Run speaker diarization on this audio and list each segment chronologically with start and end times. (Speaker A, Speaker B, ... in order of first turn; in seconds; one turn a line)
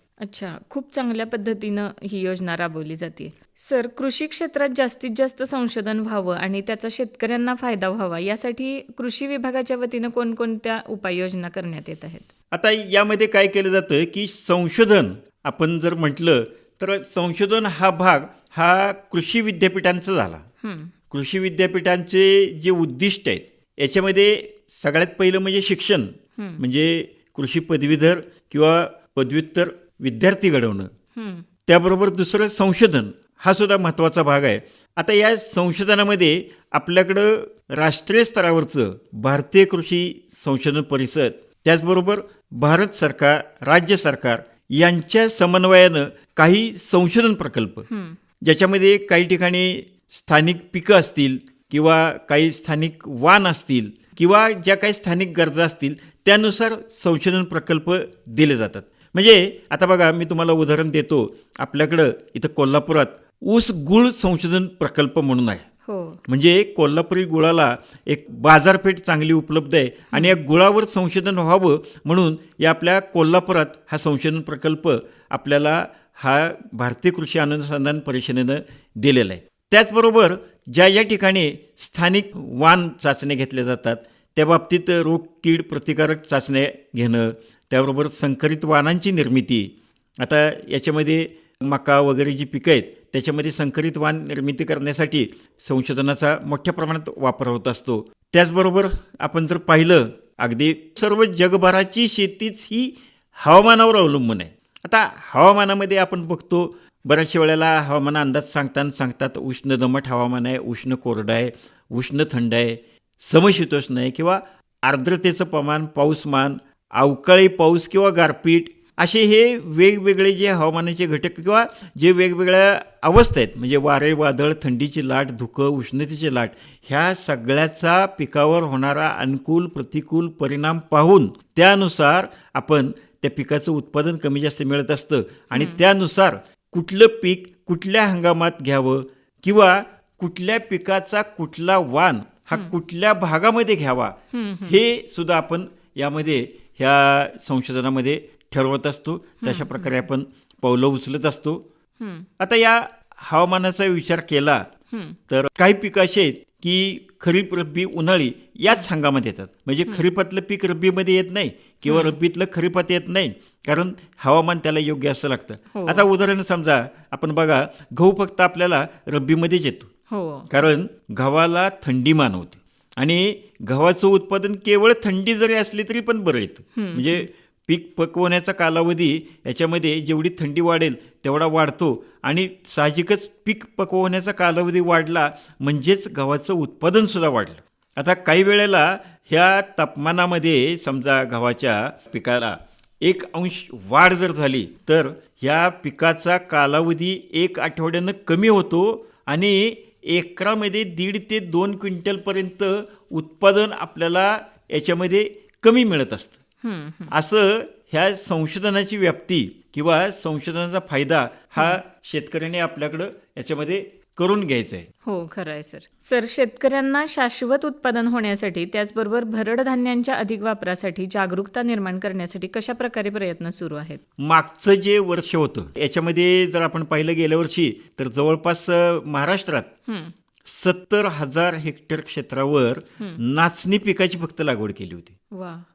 Speaker A: 0.2-12.3
Speaker B: 12.5-20.4
Speaker A: 20.6-20.9
Speaker B: 21.1-30.9
Speaker A: 26.4-26.6
Speaker A: 31.1-31.5
Speaker B: 31.7-47.9
Speaker A: 47.9-48.2
Speaker B: 48.4-65.6
Speaker A: 65.8-66.2
Speaker B: 66.3-151.6
Speaker A: 135.5-135.8
Speaker A: 144.3-144.8
Speaker A: 149.4-150.0
Speaker A: 152.0-152.3
Speaker B: 152.4-154.7
Speaker A: 154.9-155.2
Speaker B: 155.3-169.9
Speaker A: 161.8-162.2
Speaker A: 165.7-166.1
Speaker A: 170.1-170.5
Speaker B: 170.5-206.4
Speaker A: 176.7-177.2
Speaker A: 206.6-207.1
Speaker B: 207.1-214.9
Speaker A: 215.0-224.0
Speaker B: 224.2-229.7
Speaker A: 229.9-230.1
Speaker B: 230.4-235.1
Speaker A: 235.3-235.6